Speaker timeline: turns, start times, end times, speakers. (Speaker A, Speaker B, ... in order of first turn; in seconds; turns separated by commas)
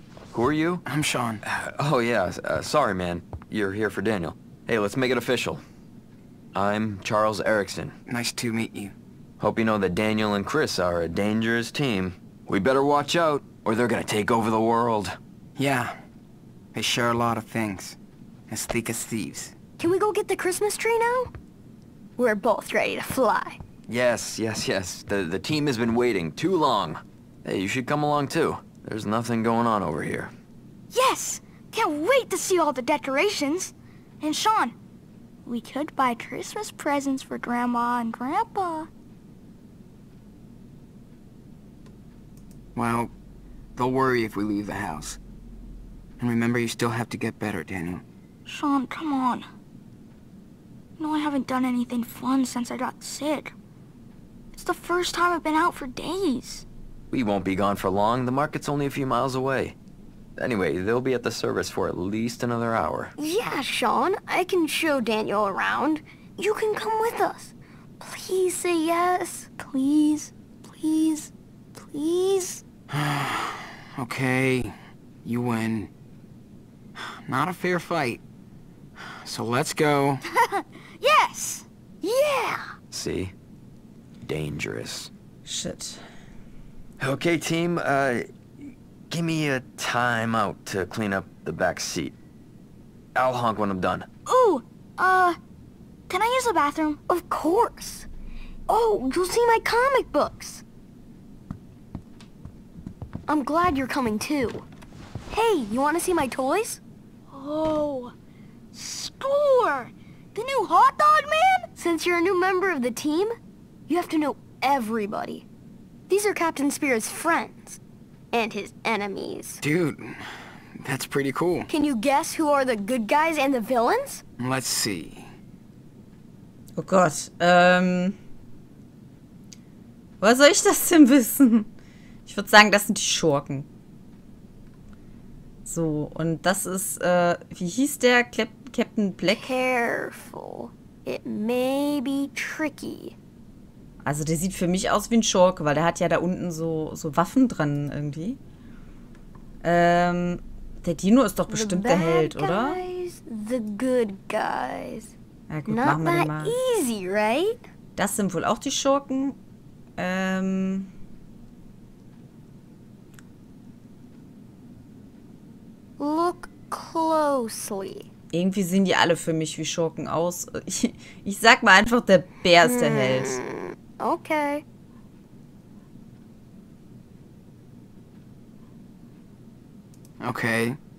Speaker A: 0.3-0.8, Speaker B: 0.9-1.4, Speaker A: 1.4-5.6, Speaker A: 6.5-8.0, Speaker B: 8.1-8.9, Speaker A: 9.4-15.2, Speaker B: 15.6-16.0, Speaker B: 16.7-18.0, Speaker B: 18.5-19.5, Speaker C: 19.8-21.3, Speaker C: 22.2-23.6, Speaker A: 23.9-30.3, Speaker D: 30.9-34.8, Speaker D: 35.5-38.9, Speaker B: 42.8-43.1, Speaker B: 43.8-45.2, Speaker B: 46.2-48.0, Speaker D: 48.5-49.5, Speaker D: 51.0-53.5, Speaker D: 54.5-56.6, Speaker A: 57.1-59.8, Speaker A: 60.4-63.1, Speaker C: 63.2-72.6, Speaker B: 72.9-75.9, Speaker B: 77.3-78.2, Speaker B: 79.2-80.2, Speaker D: 80.3-81.7, Speaker C: 82.0-82.7, Speaker A: 82.9-83.3, Speaker A: 84.2-85.1, Speaker E: 85.5-86.0, Speaker A: 87.0-92.2, Speaker A: 93.2-94.1, Speaker D: 94.3-95.4, Speaker D: 96.1-97.0, Speaker C: 97.1-98.1, Speaker C: 98.7-100.6, Speaker C: 103.3-104.7, Speaker C: 105.3-106.8, Speaker D: 107.3-108.1, Speaker D: 108.7-111.7, Speaker C: 111.8-113.3, Speaker C: 113.9-115.5, Speaker C: 116.1-117.8, Speaker C: 118.3-119.6, Speaker B: 119.6-121.7, Speaker C: 121.7-124.2, Speaker B: 124.4-125.3, Speaker E: 126.8-128.2, Speaker E: 130.2-131.7, Speaker E: 132.3-133.7, Speaker E: 135.7-139.5, Speaker C: 139.3-143.2, Speaker E: 144.0-148.4, Speaker E: 149.6-152.8, Speaker C: 151.5-155.1, Speaker E: 155.5-156.6, Speaker C: 155.7-157.6, Speaker E: 158.0-159.4, Speaker E: 160.0-160.9, Speaker C: 166.0-168.1, Speaker E: 168.3-173.4, Speaker C: 172.6-174.6, Speaker B: 180.2-180.8